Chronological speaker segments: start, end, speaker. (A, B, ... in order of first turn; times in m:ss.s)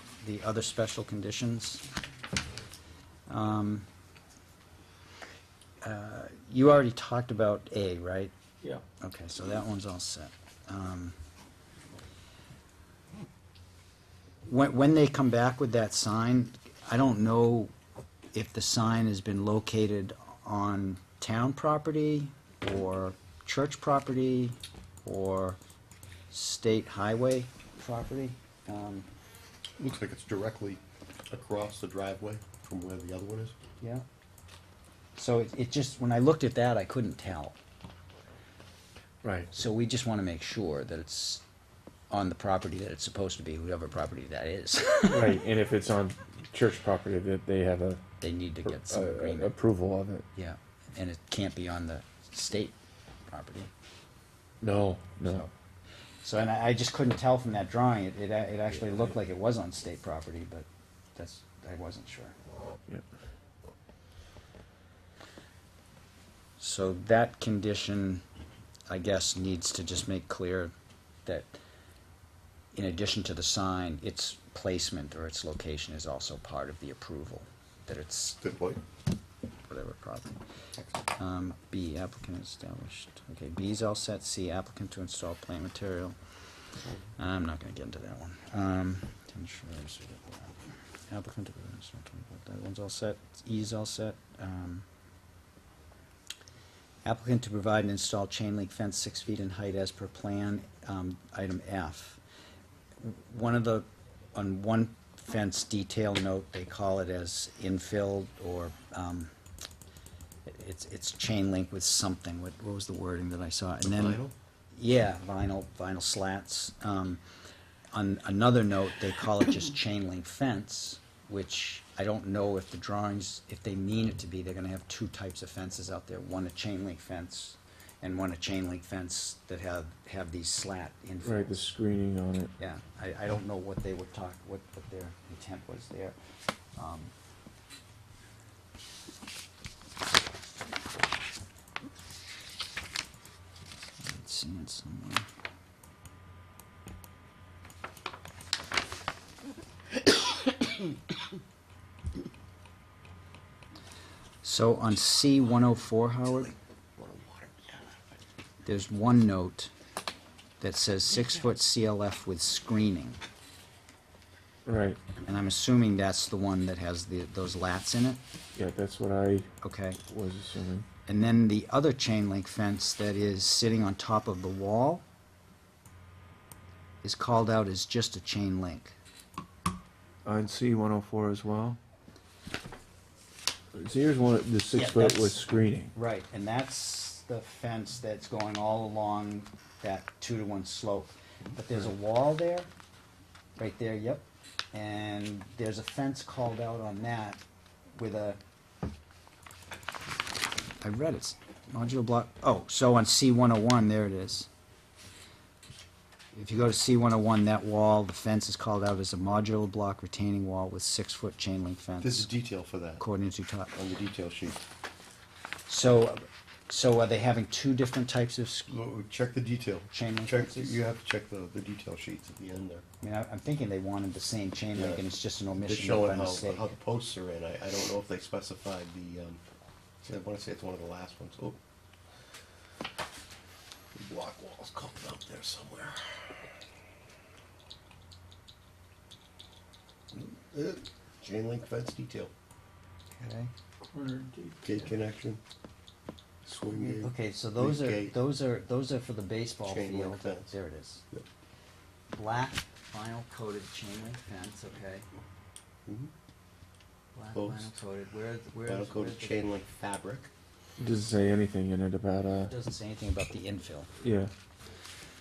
0:00.2-0:01.8 A
0:03.3-0:03.9 A
0:05.8-0:08.3 A
0:09.0-0:11.2 A
0:14.5-0:17.7 A
0:18.3-0:25.6 A
0:26.3-0:29.1 A
0:29.8-0:33.6 B
0:35.2-0:37.6 A
0:39.2-0:39.5 C
0:39.5-0:41.4 A
0:42.1-0:45.4 A
0:45.1-0:48.0 C
0:48.2-0:49.5 A
0:48.6-0:50.2 C
0:50.3-0:52.8 A
0:53.3-0:53.7 A
0:54.6-0:55.4 C
0:55.2-0:55.5 A
0:56.2-1:02.4 A
1:06.6-1:08.2 A
1:08.9-1:10.7 A
1:11.3-1:11.6 A
1:12.7-1:18.4 A
1:18.4-1:18.8 B
1:19.7-1:20.4 A
1:21.1-1:26.2 A
1:27.2-1:34.9 A
1:37.0-1:42.2 A
1:43.0-1:49.3 A
1:50.4-1:54.2 A
1:53.9-1:54.3 B
1:54.8-1:57.2 A
1:57.9-2:11.5 A
2:11.2-2:12.5 C
2:12.6-2:16.2 A
2:16.8-2:17.1 A
2:24.0-2:25.3 A
2:34.4-2:36.5 A
2:37.0-2:38.0 B
2:38.6-2:39.7 A
2:40.6-2:43.2 A
2:44.7-2:45.0 C
2:45.2-2:48.2 A
2:48.5-2:49.5 C
2:49.6-2:50.0 A
2:50.1-2:50.8 C
2:51.1-2:55.0 A
2:57.0-2:59.0 A
3:00.2-3:01.8 C
3:03.7-3:05.9 C
3:04.7-3:12.7 A
3:13.6-3:17.4 A
3:17.9-3:18.4 A
3:20.8-3:24.5 A
3:26.3-3:32.3 A
3:32.0-3:33.0 B
3:33.0-3:33.7 A
3:33.7-3:34.6 B
3:35.7-3:38.7 A
3:38.7-3:42.8 B
3:39.9-3:40.8 A
3:43.0-3:46.7 A
3:44.8-3:45.0 B
3:45.6-3:49.4 B
3:50.0-3:51.6 B
3:53.9-3:56.2 B
4:00.1-4:02.3 B
4:03.2-4:03.5 A
4:04.6-4:05.4 B
4:06.4-4:08.2 B
4:06.6-4:11.0 A
4:09.6-4:10.5 B
4:12.1-4:15.1 A
4:15.9-4:16.1 B
4:17.1-4:19.5 A
4:17.3-4:17.8 B
4:18.6-4:20.3 B
4:20.8-4:22.5 C
4:22.5-4:23.9 A
4:24.0-4:24.3 C